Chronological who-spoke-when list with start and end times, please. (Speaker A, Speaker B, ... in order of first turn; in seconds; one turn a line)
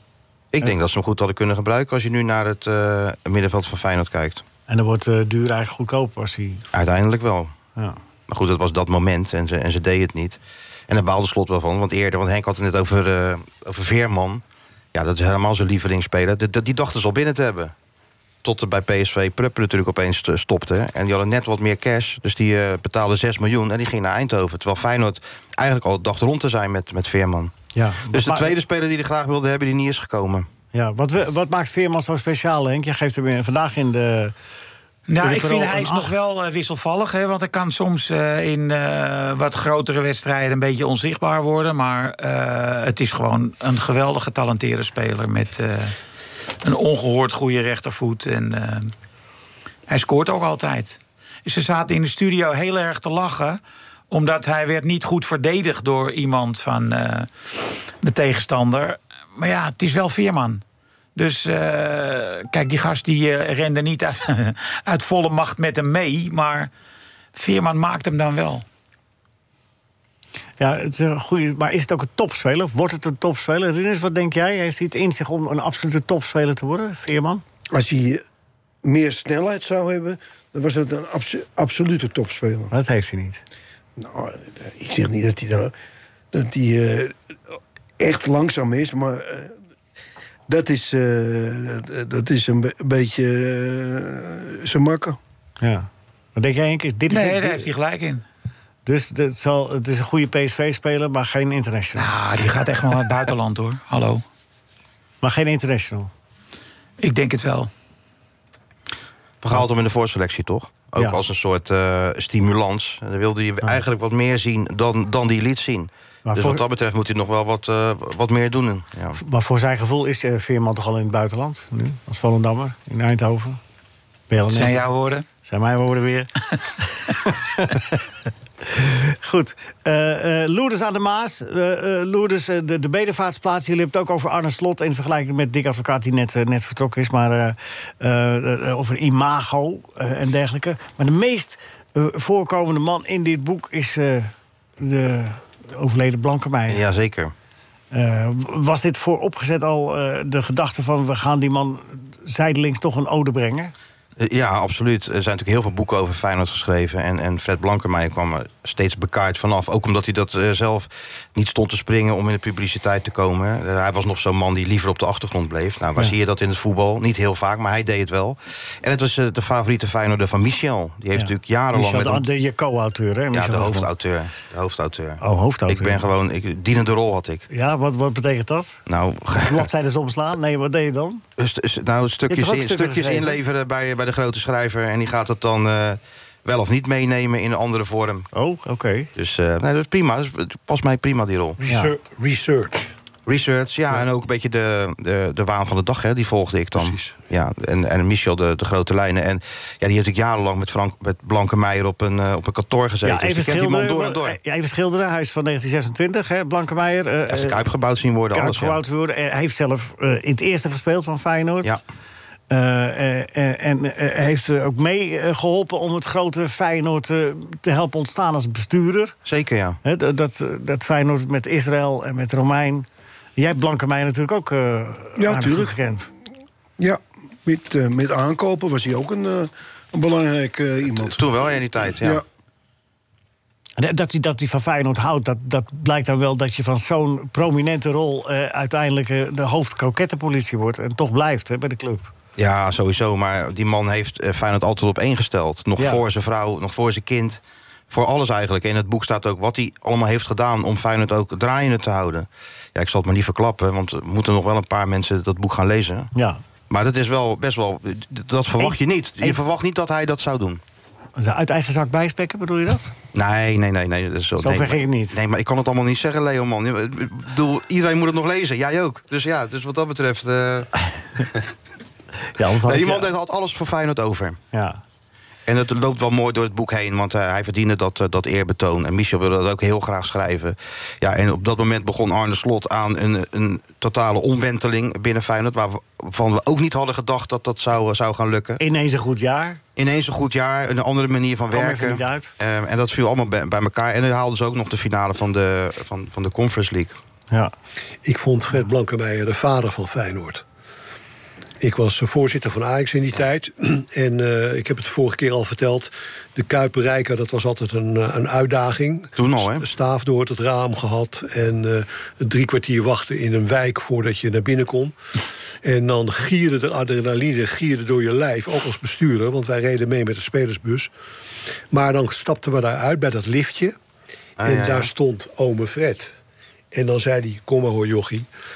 Speaker A: 0.5-4.4
Speaker B: 4.7-6.7
Speaker A: 6.7-7.5
Speaker A: 8.3-14.4
Speaker A: 14.9-17.7
Speaker A: 18.4-27.5
Speaker B: 27.7-28.6
Speaker A: 28.1-30.5
Speaker B: 30.7-34.4
Speaker C: 35.1-46.0
Speaker B: 35.2-36.2
Speaker C: 46.6-48.9
Speaker C: 49.9-53.6
Speaker C: 54.1-57.5
Speaker C: 58.0-60.6
Speaker C: 61.2-66.7
Speaker C: 67.3-68.7
Speaker B: 70.6-77.4
Speaker D: 77.7-78.2
Speaker D: 78.8-82.7
Speaker B: 82.7-83.4
Speaker D: 84.0-85.7
Speaker D: 86.3-87.2
Speaker D: 88.0-89.5
Speaker D: 90.5-95.2
Speaker B: 95.6-97.7
Speaker C: 97.1-98.2
Speaker B: 98.9-102.1
Speaker C: 102.0-104.2
Speaker B: 105.2-106.1
Speaker C: 107.0-107.7
Speaker A: 109.4-119.2
Speaker B: 116.2-116.6
Speaker B: 119.2-123.6
Speaker B: 124.3-124.9
Speaker C: 124.5-125.2
Speaker B: 125.4-126.3
Speaker B: 127.0-128.1
Speaker B: 128.6-146.8
Speaker A: 146.7-147.3
Speaker B: 147.9-153.7
Speaker A: 154.2-172.3
Speaker B: 171.2-173.9
Speaker A: 173.3-177.5
Speaker B: 175.2-176.1
Speaker B: 177.5-178.8
Speaker A: 178.9-179.7
Speaker B: 179.4-181.2
Speaker A: 181.4-188.3
Speaker B: 182.3-183.4
Speaker B: 188.3-189.1
Speaker A: 189.2-191.6
Speaker E: 191.6-192.9
Speaker A: 193.3-204.4
Speaker E: 196.8-197.2
Speaker B: 203.0-207.7
Speaker A: 207.3-208.8
Speaker B: 208.3-211.8
Speaker B: 212.5-219.2
Speaker A: 219.2-219.8
Speaker B: 219.8-226.1
Speaker D: 225.2-225.8
Speaker D: 226.8-231.3
Speaker A: 231.1-232.2
Speaker B: 233.8-242.1
Speaker A: 242.4-256.1
Speaker B: 245.8-246.0
Speaker B: 256.1-256.4
Speaker A: 256.7-260.6
Speaker B: 258.6-259.4
Speaker B: 261.2-262.9
Speaker A: 263.1-270.7
Speaker B: 264.4-265.2
Speaker B: 272.3-273.1
Speaker A: 272.6-274.4
Speaker B: 274.5-274.8
Speaker A: 275.5-288.6
Speaker B: 288.6-289.6
Speaker A: 289.8-297.0
Speaker B: 291.5-292.3
Speaker E: 298.1-300.4
Speaker E: 301.6-314.9
Speaker A: 309.2-309.7
Speaker E: 315.6-320.9
Speaker E: 321.7-323.8
Speaker A: 324.4-324.9
Speaker E: 324.4-326.1
Speaker E: 326.7-328.3